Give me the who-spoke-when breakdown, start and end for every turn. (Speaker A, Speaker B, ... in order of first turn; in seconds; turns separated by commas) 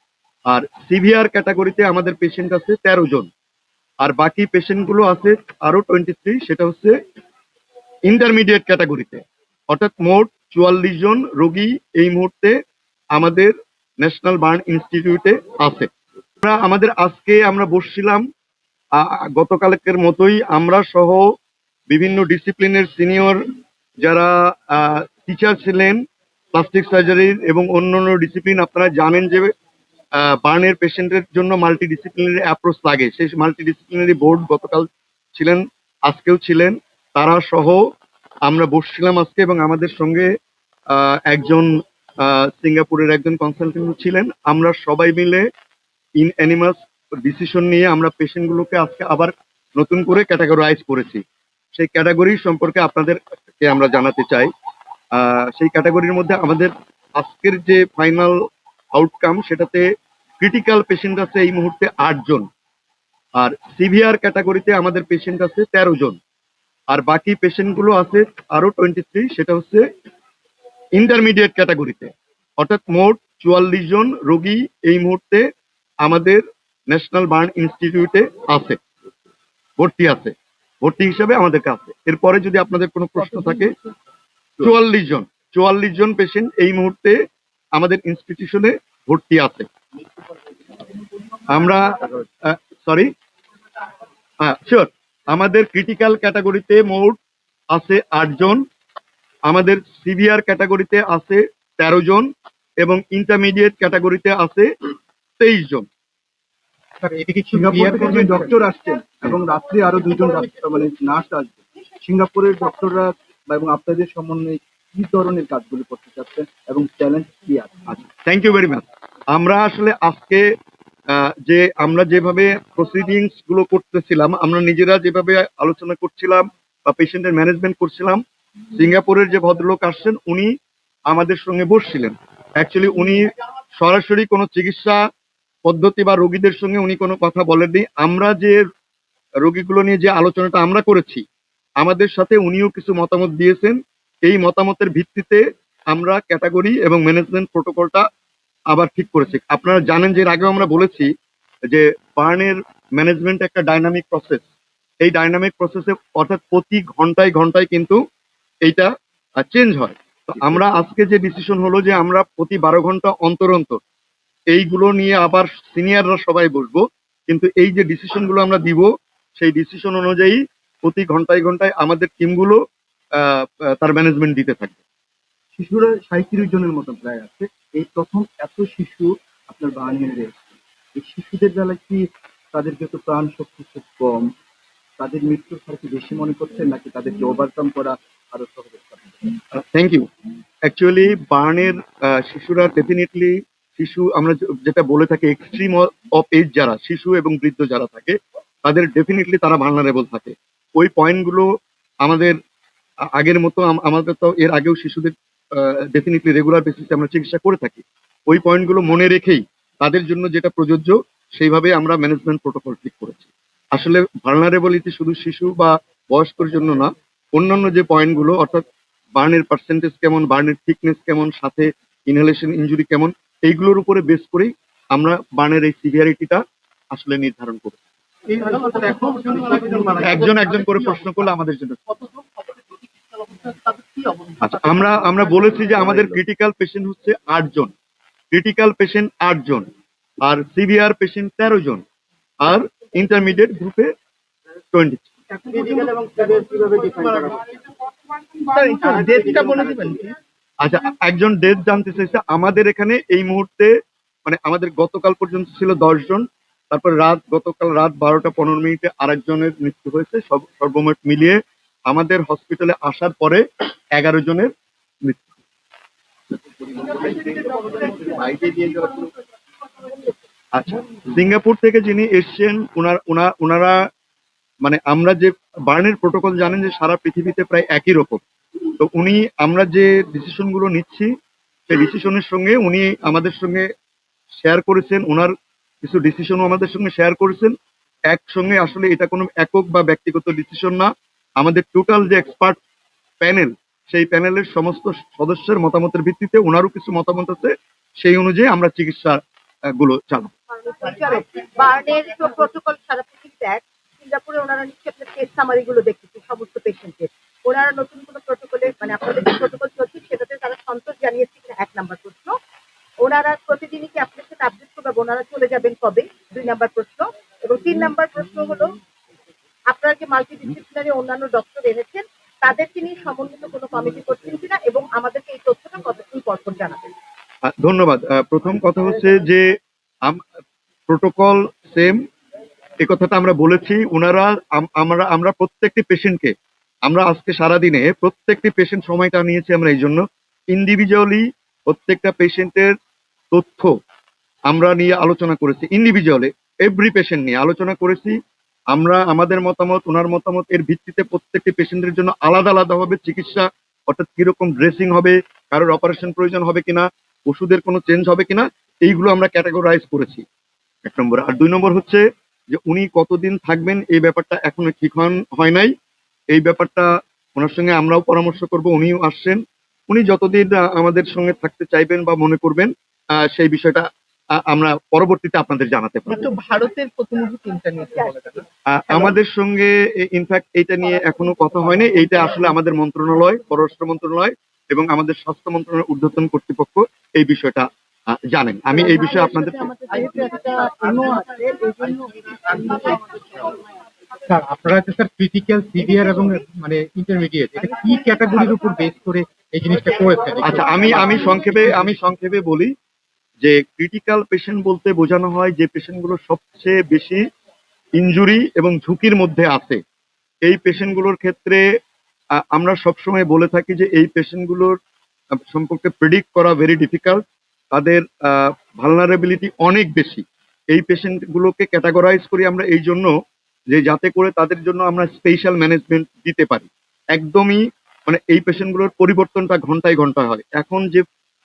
Speaker A: 0.5-3.3, Speaker A: 4.0-6.9, Speaker A: 8.1-12.6, Speaker A: 13.1-15.9, Speaker A: 16.4-18.2, Speaker A: 18.9-21.2, Speaker A: 21.9-23.4, Speaker A: 24.0-26.0, Speaker A: 26.5-29.5, Speaker A: 30.1-37.8, Speaker A: 38.5-40.3, Speaker A: 40.9-41.7, Speaker A: 42.2-45.5, Speaker A: 46.2-51.2, Speaker A: 51.7-54.5, Speaker A: 55.1-58.4, Speaker A: 58.9-59.8, Speaker A: 60.4-62.5, Speaker A: 63.4-66.2, Speaker A: 66.9-69.8, Speaker A: 70.9-75.5, Speaker A: 76.0-78.8, Speaker A: 79.8-83.7, Speaker A: 84.6-87.2, Speaker A: 87.7-89.7, Speaker A: 91.5-93.1, Speaker A: 94.4-97.2, Speaker A: 97.7-98.6, Speaker A: 99.5-102.3, Speaker A: 102.8-104.7, Speaker A: 105.4-105.8, Speaker B: 107.0-108.6, Speaker C: 107.5-118.0, Speaker A: 118.2-120.5, Speaker A: 121.1-130.5, Speaker A: 131.1-135.0, Speaker A: 135.6-138.6, Speaker A: 139.4-141.2, Speaker A: 141.8-148.1, Speaker A: 148.7-151.1, Speaker A: 151.7-154.4, Speaker A: 155.0-158.0, Speaker A: 158.6-163.8, Speaker A: 164.5-172.6, Speaker A: 173.2-174.8, Speaker C: 175.6-184.3, Speaker C: 185.0-189.3, Speaker A: 189.5-190.1, Speaker A: 190.6-201.5, Speaker A: 202.0-202.3, Speaker A: 203.1-226.4, Speaker A: 226.9-227.8, Speaker D: 228.3-230.8, Speaker A: 230.0-231.8, Speaker D: 233.2-234.5, Speaker A: 234.4-237.7, Speaker A: 238.3-239.7, Speaker A: 240.2-241.8, Speaker A: 242.4-243.9, Speaker A: 244.7-245.1, Speaker D: 245.3-247.5, Speaker D: 248.4-250.1, Speaker A: 250.6-253.7, Speaker A: 254.2-264.5, Speaker A: 265.0-265.3, Speaker C: 266.8-267.3, Speaker A: 270.5-273.8, Speaker A: 274.6-278.2, Speaker A: 278.8-281.1, Speaker A: 281.7-283.7, Speaker A: 284.4-287.5, Speaker A: 288.1-292.6, Speaker A: 293.2-299.2, Speaker A: 299.7-300.3, Speaker E: 300.5-312.4, Speaker E: 313.0-318.8, Speaker E: 319.7-326.9, Speaker A: 327.5-329.5, Speaker A: 330.9-332.0, Speaker A: 332.8-336.3, Speaker A: 336.9-342.7, Speaker A: 343.3-343.7, Speaker A: 344.5-348.1, Speaker A: 348.7-360.2, Speaker A: 360.8-365.7, Speaker A: 366.3-373.9, Speaker A: 374.4-376.3, Speaker D: 376.2-379.0, Speaker A: 378.7-389.7, Speaker E: 389.8-393.1, Speaker D: 389.9-393.2, Speaker B: 394.3-401.9, Speaker A: 400.4-402.7, Speaker E: 400.5-401.4, Speaker A: 403.4-407.3, Speaker A: 407.9-409.8, Speaker A: 410.4-411.6, Speaker A: 412.5-414.7, Speaker A: 415.5-417.2, Speaker A: 417.7-423.1, Speaker A: 423.7-431.0